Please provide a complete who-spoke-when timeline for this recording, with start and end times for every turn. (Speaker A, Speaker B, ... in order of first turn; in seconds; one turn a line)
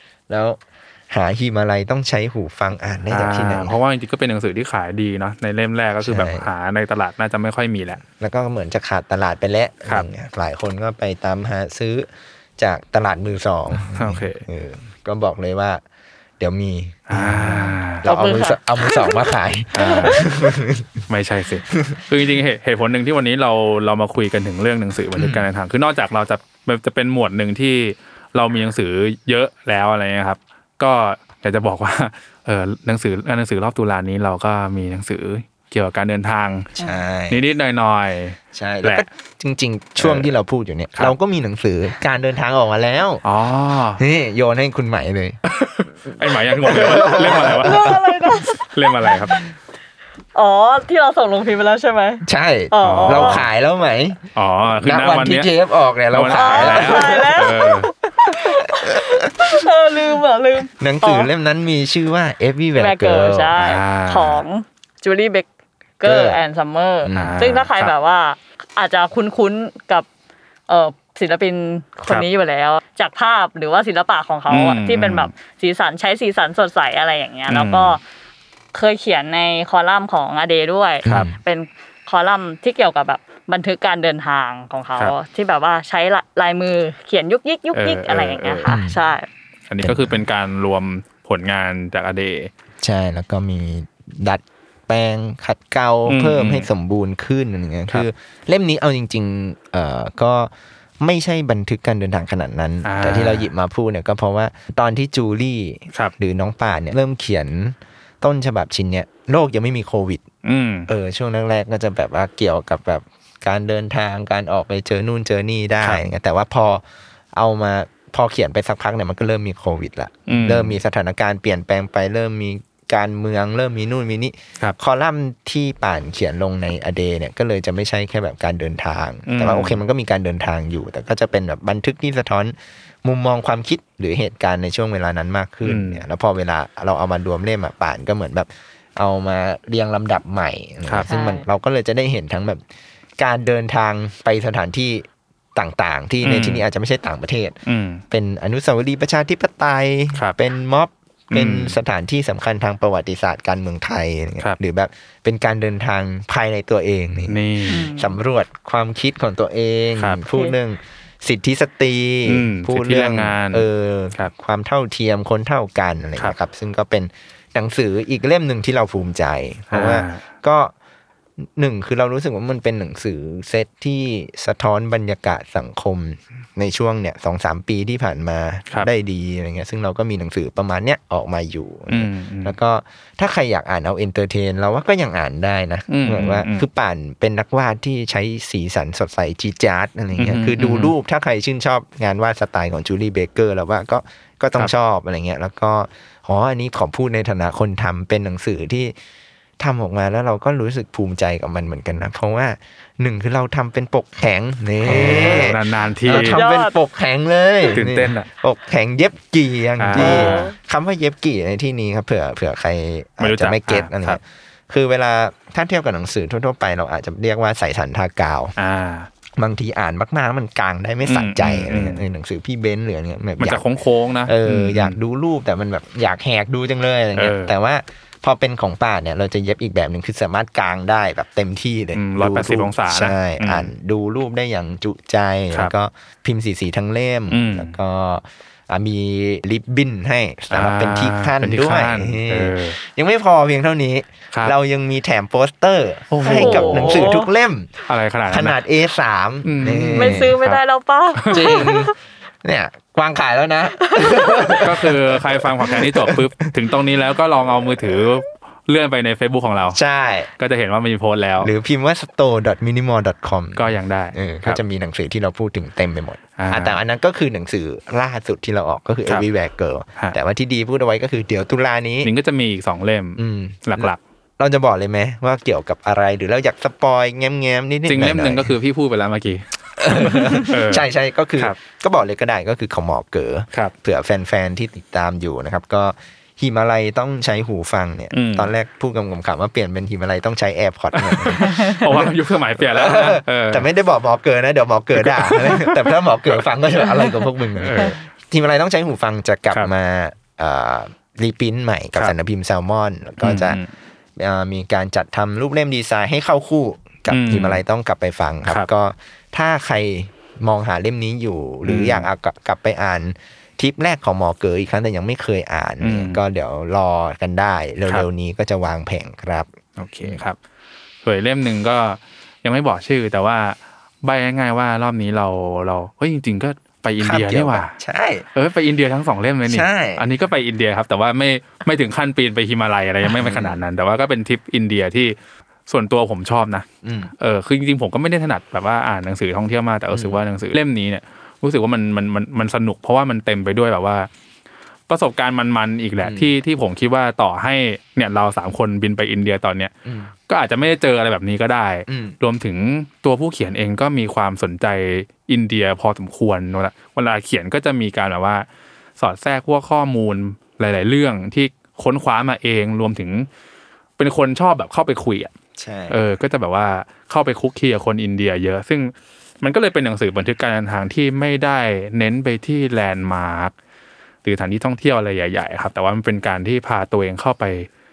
Speaker A: 0.3-3.7
Speaker B: 3.1-8.0
Speaker A: 6.0-6.5
Speaker A: 8.1-15.8
Speaker B: 13.9-14.4
Speaker A: 16.4-21.0
Speaker B: 17.1-18.0
Speaker C: 18.1-19.3
Speaker B: 19.7-20.2
Speaker C: 19.9-20.2
Speaker B: 21.1-36.7
Speaker A: 21.7-22.0
Speaker A: 25.1-25.4
Speaker A: 36.8-37.4
Speaker B: 37.3-39.1
Speaker A: 38.5-43.2
Speaker B: 40.0-40.3
Speaker B: 43.2-44.0
Speaker A: 44.0-45.4
Speaker B: 45.5-47.9
Speaker A: 46.2-48.0
Speaker C: 47.3-49.5
Speaker B: 48.6-49.4
Speaker C: 50.4-53.4
Speaker A: 52.2-54.2
Speaker B: 52.8-53.5
Speaker B: 54.4-55.5
Speaker A: 54.8-59.5
Speaker B: 56.1-57.9
Speaker C: 56.3-61.3
Speaker A: 60.8-63.8
Speaker C: 62.8-65.5
Speaker B: 63.6-64.4
Speaker C: 66.0-70.1
Speaker A: 66.0-66.4
Speaker A: 67.0-67.4
Speaker B: 67.1-67.9
Speaker C: 70.7-78.0
Speaker B: 74.5-75.3
Speaker B: 77.5-78.0
Speaker C: 78.7-89.3
Speaker A: 81.0-81.3
Speaker B: 87.7-88.7
Speaker A: 88.7-89.0
Speaker B: 89.7-92.5
Speaker A: 89.8-90.2
Speaker A: 92.8-110.2
Speaker B: 96.1-96.7
Speaker B: 102.8-103.5
Speaker B: 110.4-110.9
Speaker A: 110.9-142.6
Speaker B: 120.3-120.8
Speaker B: 129.3-129.8
Speaker B: 135.7-136.1
Speaker C: 141.1-141.5
Speaker A: 143.2-147.6
Speaker B: 146.2-146.6
Speaker B: 147.7-148.0
Speaker A: 148.1-170.7
Speaker B: 151.3-151.8
Speaker B: 157.3-157.9
Speaker C: 157.7-158.1
Speaker B: 162.3-164.3
Speaker B: 169.7-170.2
Speaker A: 171.4-199.0
Speaker B: 181.9-182.5
Speaker B: 185.9-186.7
Speaker B: 190.2-190.9
Speaker A: 199.6-218.5
Speaker B: 204.8-206.4
Speaker C: 206.1-206.7
Speaker B: 207.7-208.3
Speaker B: 209.8-210.5
Speaker C: 210.0-210.6
Speaker B: 213.2-214.2
Speaker B: 218.6-219.1
Speaker A: 219.4-223.7
Speaker B: 221.1-222.0
Speaker B: 223.4-225.0
Speaker A: 224.3-250.4
Speaker B: 227.2-227.5
Speaker B: 232.0-233.7
Speaker B: 237.3-237.8
Speaker B: 240.5-242.8
Speaker B: 246.1-247.2
Speaker C: 246.3-247.3
Speaker B: 247.9-248.6
Speaker B: 249.4-250.6
Speaker C: 250.0-251.8
Speaker B: 251.2-251.8
Speaker A: 251.3-251.9
Speaker A: 252.4-256.5
Speaker C: 253.9-254.6
Speaker B: 254.6-259.8
Speaker A: 259.7-260.3
Speaker B: 260.4-261.5
Speaker A: 261.4-272.1
Speaker B: 263.6-264.6
Speaker B: 266.4-266.8
Speaker B: 272.0-274.0
Speaker A: 273.2-278.5
Speaker B: 277.9-280.9
Speaker A: 279.8-303.6
Speaker B: 288.1-288.5
Speaker B: 290.9-293.7
Speaker B: 295.0-295.9
Speaker B: 297.0-298.0
Speaker B: 303.2-303.7
Speaker A: 304.2-320.2
Speaker B: 307.1-307.6
Speaker B: 311.6-312.1
Speaker B: 315.8-316.2
Speaker B: 319.8-320.4
Speaker B: 321.0-327.7
Speaker A: 327.0-328.3
Speaker B: 328.4-335.2
Speaker A: 329.5-330.1
Speaker A: 333.0-333.6
Speaker B: 335.7-336.7
Speaker A: 336.8-337.1
Speaker B: 337.2-344.1
Speaker A: 339.9-340.2
Speaker B: 344.9-349.7
Speaker A: 346.0-346.3
Speaker A: 349.9-350.1
Speaker B: 350.3-358.5
Speaker A: 351.9-352.2
Speaker B: 359.0-363.3
Speaker B: 364.0-365.3
Speaker A: 365.6-366.0
Speaker B: 365.9-373.5
Speaker B: 374.2-377.7